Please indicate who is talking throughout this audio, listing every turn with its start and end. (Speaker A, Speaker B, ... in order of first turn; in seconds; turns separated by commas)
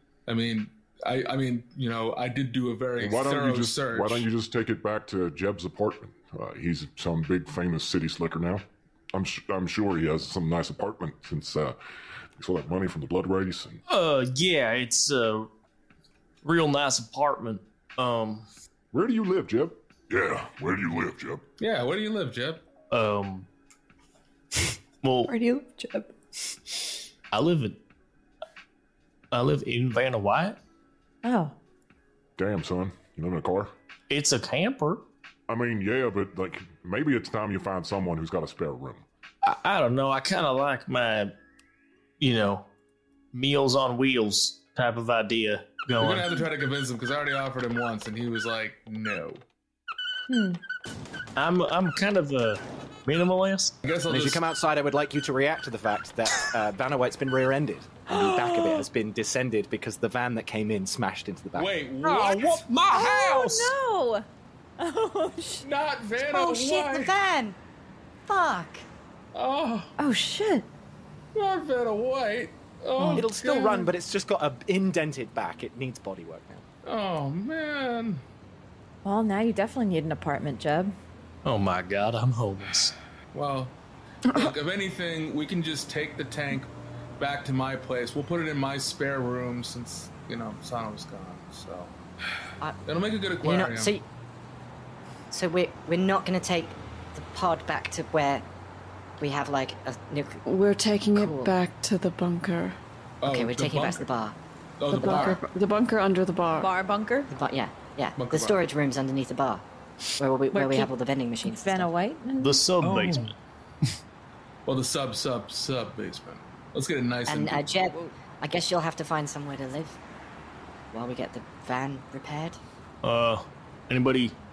Speaker A: 0.3-4.3, Speaker B: 3.0-11.8, Speaker B: 12.3-13.8, Speaker C: 13.9-15.5, Speaker C: 16.4-18.4, Speaker B: 18.9-21.4, Speaker A: 21.6-22.6, Speaker C: 22.9-23.5, Speaker C: 25.0-25.3, Speaker D: 25.3-26.1, Speaker C: 27.3-27.8, Speaker C: 29.3-30.6, Speaker D: 31.2-31.5, Speaker B: 32.4-33.7, Speaker C: 34.1-35.0, Speaker B: 35.5-39.0, Speaker C: 39.4-41.3, Speaker C: 42.2-42.6, Speaker C: 43.3-46.3, Speaker A: 46.0-49.4, Speaker D: 50.3-50.6, Speaker C: 51.4-53.7, Speaker A: 53.8-54.4, Speaker E: 54.1-61.7, Speaker D: 58.1-58.9, Speaker A: 61.5-63.7, Speaker C: 62.1-62.6, Speaker D: 62.9-64.2, Speaker D: 64.8-65.7, Speaker A: 65.6-67.1, Speaker F: 66.3-67.6, Speaker F: 68.3-68.8, Speaker A: 69.3-69.9, Speaker D: 70.0-70.7, Speaker A: 71.3-73.9, Speaker D: 73.0-73.2, Speaker E: 73.1-76.6, Speaker A: 76.8-78.2, Speaker D: 79.0-80.9, Speaker C: 81.4-83.0, Speaker A: 83.3-83.8, Speaker A: 84.3-91.9, Speaker A: 92.8-94.0, Speaker F: 93.4-94.0, Speaker F: 95.3-98.5, Speaker F: 99.2-100.4, Speaker G: 100.4-102.8, Speaker F: 101.1-101.5, Speaker A: 103.2-104.1, Speaker F: 103.2-104.4, Speaker A: 104.8-105.4, Speaker G: 104.9-106.7, Speaker D: 106.6-107.3, Speaker F: 107.3-109.6, Speaker A: 108.2-108.7, Speaker F: 110.2-111.9, Speaker D: 110.5-110.9, Speaker D: 111.4-113.2, Speaker C: 112.4-113.3, Speaker A: 112.8-113.3, Speaker A: 114.7-117.7, Speaker F: 117.3-120.0, Speaker F: 120.9-122.6, Speaker C: 123.0-124.3